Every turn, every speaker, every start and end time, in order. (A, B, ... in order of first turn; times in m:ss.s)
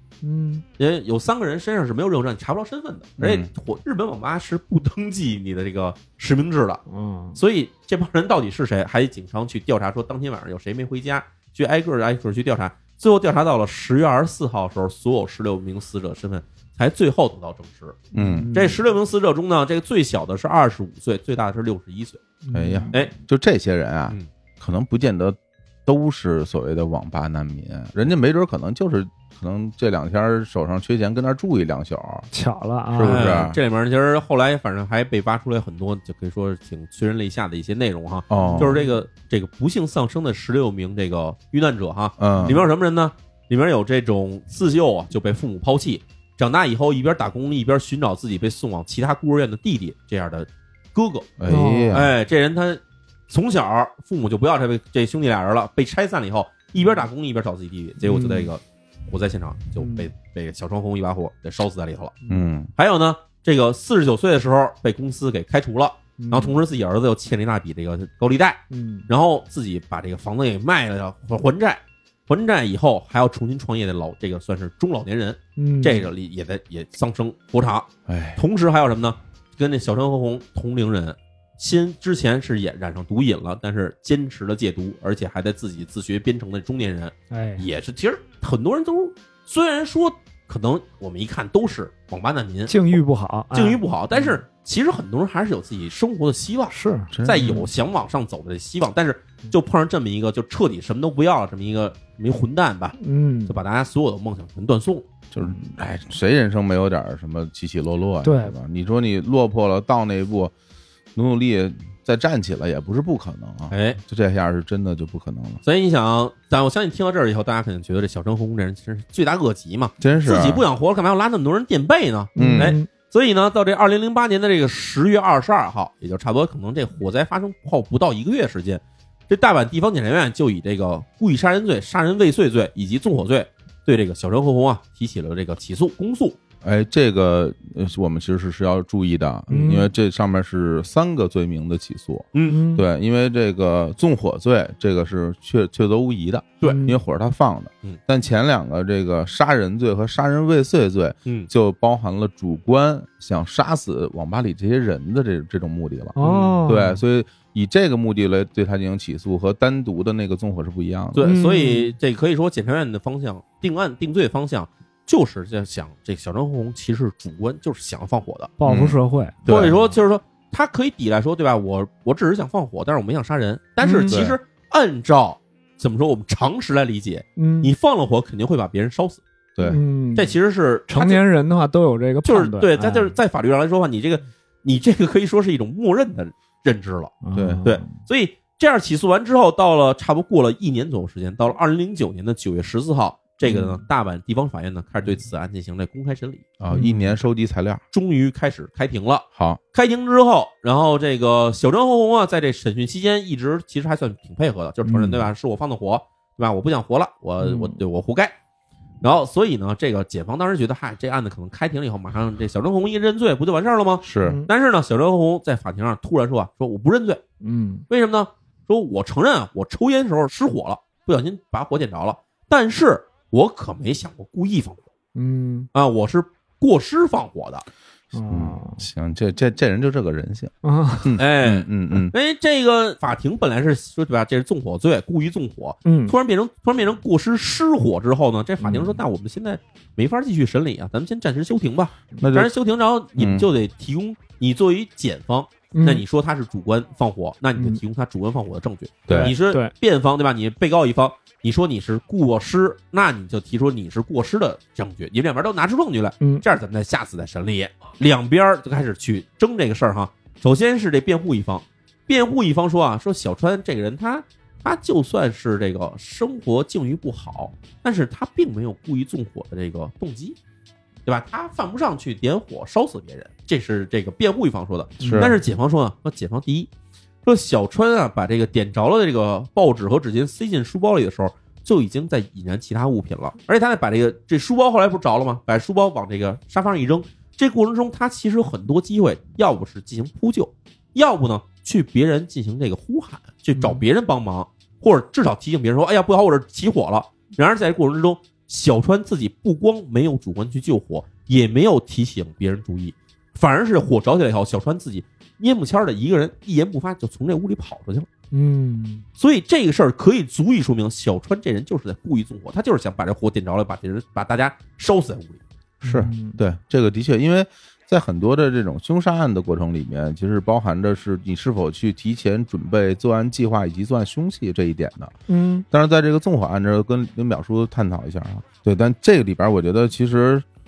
0:00.2-0:00.6 A
0:00.8-0:06.8 B
0:03.2-0:03.5 C
0:06.9-0:07.4 A
0:07.3-0:18.0 B
0:18.1-0:18.5 C
0:18.1-0:18.8 A
0:18.5-0:22.2 B
0:22.4-0:23.0 A
0:22.5-0:32.3 C
0:32.3-0:33.3 A
0:32.9-0:33.6 C
0:33.0-0:51.3 B
0:38.3-0:38.8 C
0:38.3-0:39.0 A
0:42.2-0:42.6 C
0:51.4-0:52.1 C
0:51.5-0:52.0 A
0:51.9-1:02.2 B
0:58.0-0:58.5 A
0:59.8-1:00.1 A
1:02.3-1:02.7 C
1:02.8-1:33.0 B
1:06.2-1:06.6 A
1:08.7-1:09.1 A
1:15.6-1:16.1 A
1:18.1-1:18.4 C
1:27.3-1:27.6 A
1:32.7-1:34.4 A
1:33.5-1:45.0 B
1:36.7-1:37.7 A
1:37.1-1:37.6 C
1:43.0-1:43.6 A
1:45.3-1:50.5 C
1:48.2-1:48.6 A
1:51.1-1:55.6 C
1:53.7-1:54.0 B
1:55.6-2:16.4 B
2:00.0-2:00.6 C
2:02.3-2:02.9 A
2:02.4-2:02.8 C
2:16.6-2:41.3 C
2:19.5-2:19.9 A
2:22.3-2:22.6 B
2:22.4-2:22.8 A
2:26.6-2:27.0 A
2:36.2-2:37.0 A
2:36.2-2:36.7 B
2:41.1-2:48.5 B
2:41.2-2:42.0 A
2:48.6-2:49.4 A
2:48.7-2:49.8 C
2:49.5-2:59.2 B
2:53.8-2:54.2 A
2:54.1-2:54.4 C
2:57.4-2:57.7 A
2:59.5-2:59.8 C
2:59.6-3:00.3 A
3:00.1-3:01.2 B
3:00.9-3:03.1 A
3:02.2-3:16.4 B
3:07.2-3:07.9 A
3:07.3-3:07.6 C
3:13.4-3:13.8 A
3:16.6-3:17.8 C
3:16.7-3:17.1 A
3:17.9-3:28.3 B
3:19.3-3:19.6 C
3:24.9-3:25.1 A
3:27.4-3:27.8 A
3:29.0-3:37.2 B
3:34.0-3:34.4 C
3:34.2-3:34.5 A
3:37.4-3:37.8 A
3:37.9-3:44.9 B
3:45.1-3:45.7 A
3:45.7-3:47.6 B
3:48.1-3:48.8 A
3:48.3-3:52.1 C
3:50.6-3:51.1 A
3:51.2-4:30.4 B
3:55.8-3:56.1 A
3:58.6-3:59.0 A
4:02.2-4:02.5 C
4:03.2-4:03.4 C
4:05.7-4:06.0 A
4:09.1-4:09.3 C
4:09.1-4:09.7 A
4:31.0-4:36.7 B
4:35.0-4:35.3 A
4:35.0-4:35.4 C
4:37.2-5:08.1 B
4:53.6-4:53.8 A
5:08.3-5:09.0 A
5:09.2-5:15.4 B
5:15.8-5:16.4 A
5:15.8-5:25.1 C
5:25.3-5:25.6 A
5:25.7-5:30.4 C